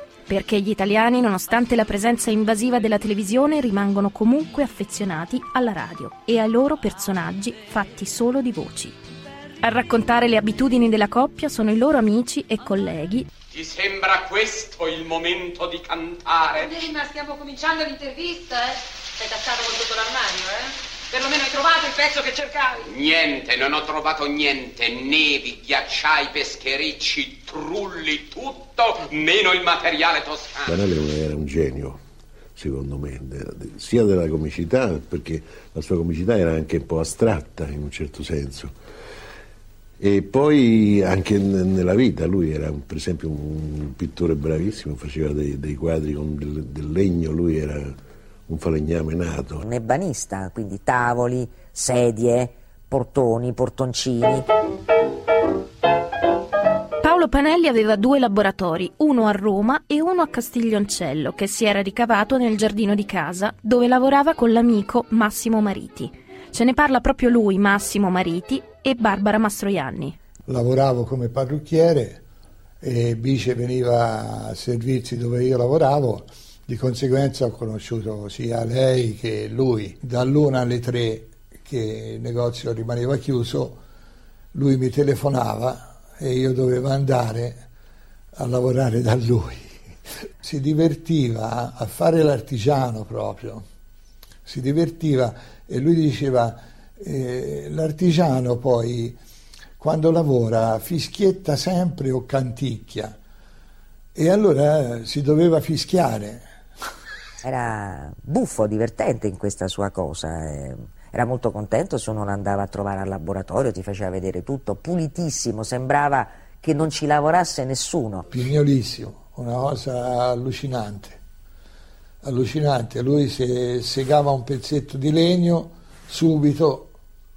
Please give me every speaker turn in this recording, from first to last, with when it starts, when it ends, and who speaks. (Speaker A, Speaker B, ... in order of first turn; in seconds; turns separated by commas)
Speaker A: 0.3-8.9, Speaker A: 9.6-13.3, Speaker B: 13.5-16.9, Speaker C: 17.0-18.7, Speaker C: 19.2-20.3, Speaker C: 21.2-22.0, Speaker B: 22.8-30.7, Speaker D: 30.6-32.0, Speaker D: 32.5-38.7, Speaker D: 40.0-47.9, Speaker D: 48.5-49.6, Speaker E: 49.6-54.5, Speaker A: 57.0-70.2, Speaker F: 70.5-72.2, Speaker F: 72.8-83.8, Speaker F: 84.5-87.7, Speaker F: 88.4-89.8, Speaker F: 90.4-93.6, Speaker F: 94.5-99.2, Speaker F: 99.8-103.2, Speaker F: 104.1-106.5, Speaker E: 107.4-118.2, Speaker F: 118.3-121.2, Speaker F: 122.2-126.9